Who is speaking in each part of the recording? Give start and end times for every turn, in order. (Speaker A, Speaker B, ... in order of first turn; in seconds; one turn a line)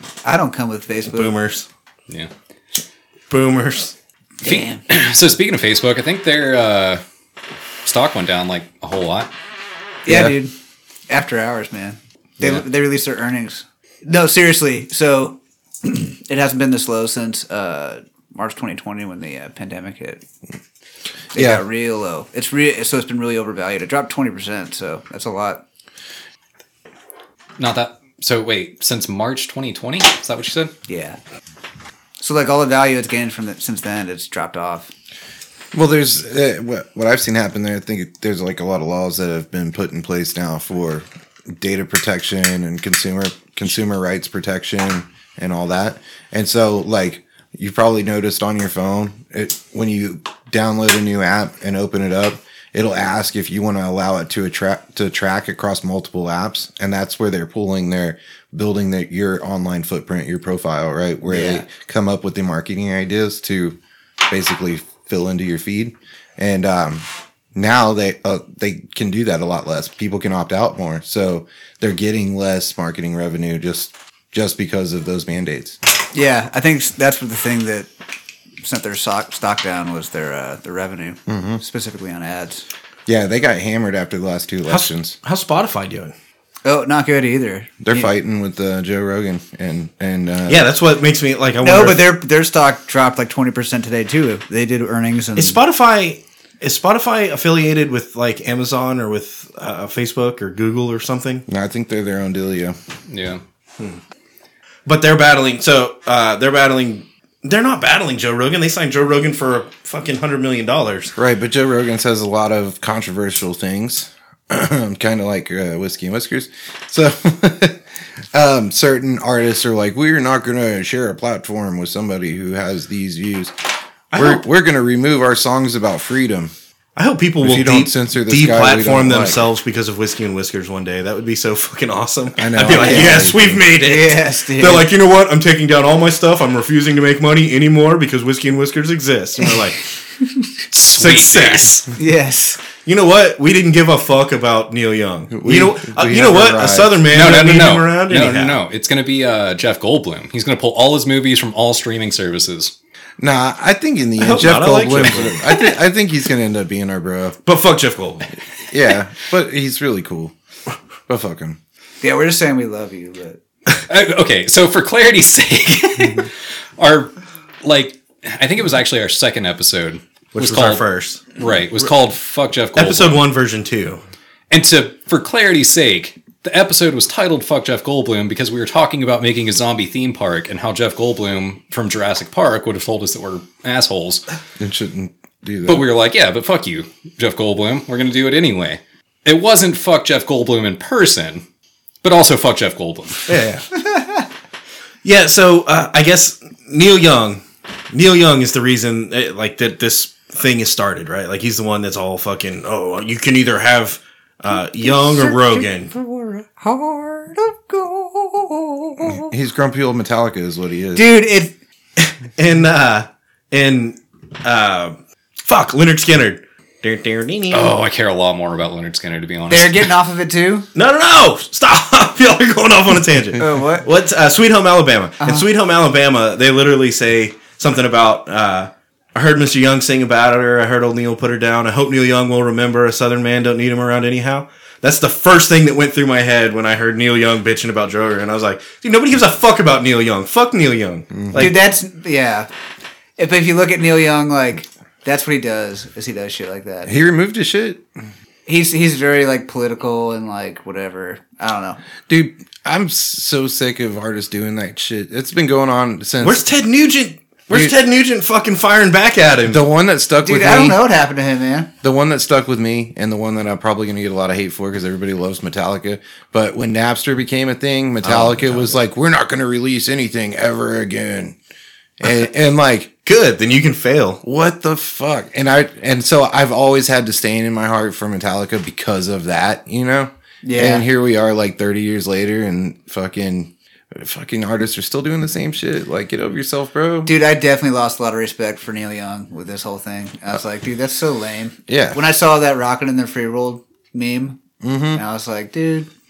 Speaker A: 0.2-1.3
Speaker B: 1.1-1.7
Speaker B: 3.3-3.9
Speaker A: 4.4-4.8
Speaker C: 4.4-7.0
Speaker C: 7.8-9.3
Speaker A: 10.1-10.5
Speaker D: 10.1-10.4
Speaker A: 11.1-20.2
Speaker A: 21.3-25.6
Speaker D: 21.4-21.6
Speaker C: 27.6-30.7
Speaker A: 30.9-31.2
Speaker A: 32.2-34.9
Speaker D: 35.7-67.0
Speaker A: 61.3-61.6
Speaker D: 67.5-75.8
Speaker A: 76.1-77.9
Speaker A: 78.6-82.6
Speaker D: 81.3-81.6
Speaker D: 83.1-85.2
Speaker B: 84.7-86.1
Speaker A: 86.6-88.1
Speaker D: 87.8-90.7
Speaker B: 90.5-92.1
Speaker A: 91.6-95.6
Speaker B: 95.4-101.5
Speaker D: 101.5-102.8
Speaker C: 103.1-103.4
Speaker B: 104.9-111.2
Speaker D: 111.2-117.8
Speaker D: 118.3-123.5
Speaker B: 124.1-124.4
Speaker D: 124.1-126.5
Speaker B: 127.0-139.8
Speaker D: 127.4-129.5
Speaker D: 132.4-133.6
Speaker A: 132.7-134.9
Speaker C: 140.7-141.8
Speaker B: 140.9-141.9
Speaker A: 141.9-142.6
Speaker B: 142.8-148.6
Speaker D: 145.3-147.0
Speaker C: 147.1-152.7
Speaker D: 153.2-157.4
Speaker B: 154.2-155.4
Speaker B: 157.4-158.3
Speaker D: 158.7-160.3
Speaker D: 161.1-161.6
Speaker A: 162.0-163.4
Speaker C: 163.9-173.2
Speaker B: 170.3-171.3
Speaker B: 172.8-174.0
Speaker C: 174.5-184.2
Speaker D: 184.6-185.9
Speaker C: 185.7-191.4
Speaker C: 192.0-193.3
Speaker B: 193.3-193.7
Speaker A: 193.8-194.2
Speaker B: 195.0-205.9
Speaker A: 204.8-209.3
Speaker D: 209.1-211.1
Speaker A: 210.9-211.5
Speaker B: 212.0-217.7
Speaker C: 217.5-219.9
Speaker A: 219.5-220.7
Speaker B: 220.8-241.6
Speaker A: 223.4-223.9
Speaker A: 225.2-225.5
Speaker D: 241.1-241.5
Speaker A: 241.3-242.5
Speaker A: 243.2-246.9
Speaker D: 246.9-247.8
Speaker A: 248.5-251.8
Speaker D: 252.1-256.4
Speaker B: 256.2-259.6
Speaker D: 259.5-260.8
Speaker A: 260.2-261.7
Speaker D: 261.8-271.4
Speaker B: 268.0-268.8
Speaker D: 272.0-272.9
Speaker B: 273.1-274.2
Speaker D: 274.2-287.1
Speaker A: 280.4-280.9
Speaker A: 287.1-294.4
Speaker D: 291.7-292.0
Speaker D: 294.6-295.0
Speaker A: 294.9-295.9